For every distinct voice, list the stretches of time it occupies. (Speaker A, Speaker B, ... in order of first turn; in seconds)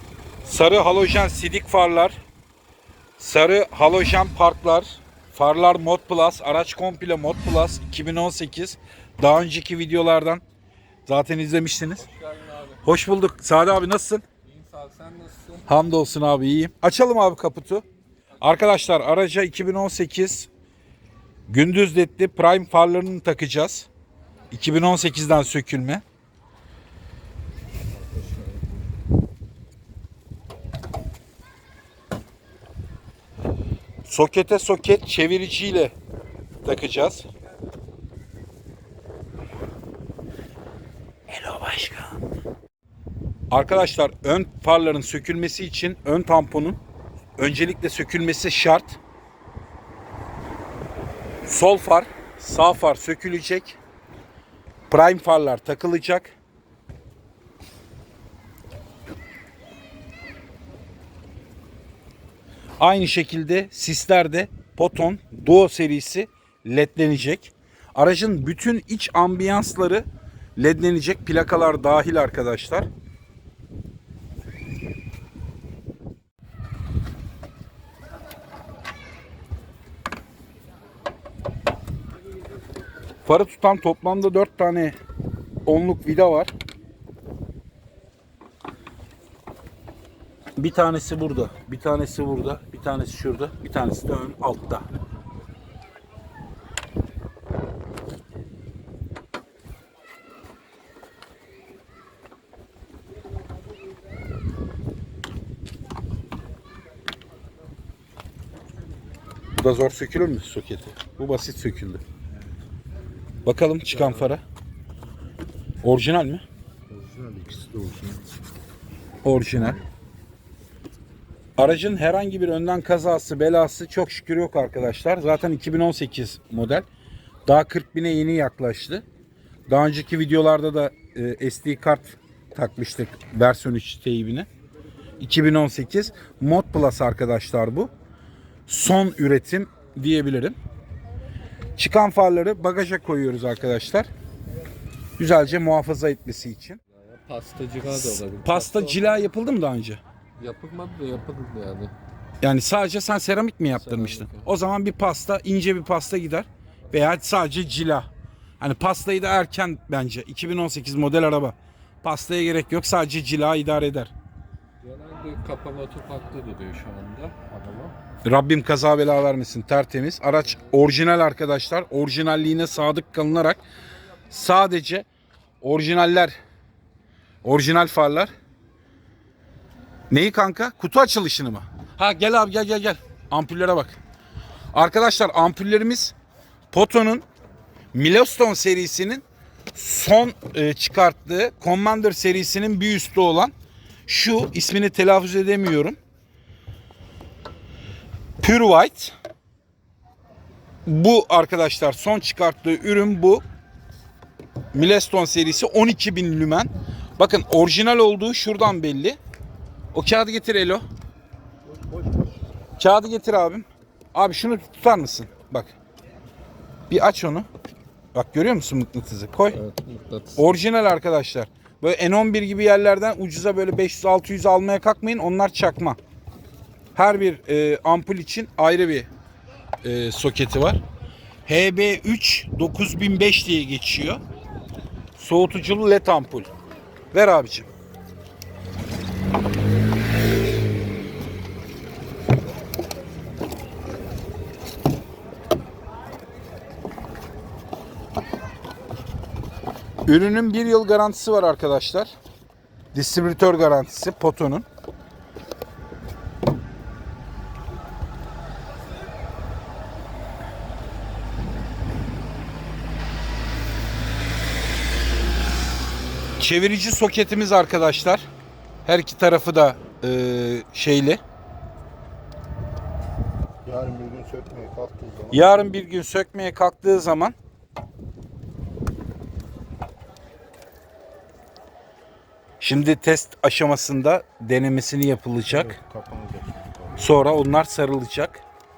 Speaker A: 0.5-2.1, 3.2-10.4, 11.1-12.1, 12.8-14.2, 15.7-17.8, 18.4-20.5, 21.5-23.9, 24.5-26.0, 34.1-35.9, 36.6-37.3, 41.3-42.2, 43.5-46.8, 47.4-49.0, 51.5-53.8, 54.9-56.3, 62.8-70.0, 70.6-72.9, 83.2-85.0, 85.7-86.5, 90.6-94.8, 109.6-112.0, 113.5-114.4, 115.8-116.4, 119.2-119.8, 121.6-126.8, 127.5-129.1, 129.7-134.5, 135.2-137.9, 138.7-140.6, 141.8-144.1, 145.2-146.8, 147.8-150.0, 152.4-158.1, 158.6-164.1, 168.2-173.6, 174.3-175.1, 175.6-176.3, 177.4-178.3, 180.1-184.0, 184.7-186.2, 186.7-187.2, 187.9-193.5, 194.1-196.0, 198.4-199.1, 200.9-203.4, 204.7-209.2, 209.9-210.8, 212.8-215.7, 216.9-217.5, 218.2-219.6, 220.4-226.0, 226.9-229.1, 229.8-230.8, 231.5-234.2, 235.2-236.5, 237.1-237.7, 250.1-252.1, 252.9-254.7, 266.4-268.2, 268.9-271.2, 275.3-277.4, 282.6-285.8, 287.0-288.4
Speaker B: 12.1-12.8, 14.4-15.7, 28.0-28.6, 147.0-149.2, 150.4-151.9, 153.7-154.5, 164.8-167.9, 219.5-220.4
Speaker C: 116.9-118.2, 119.6-119.8, 211.7-212.3, 273.6-275.5, 285.5-287.1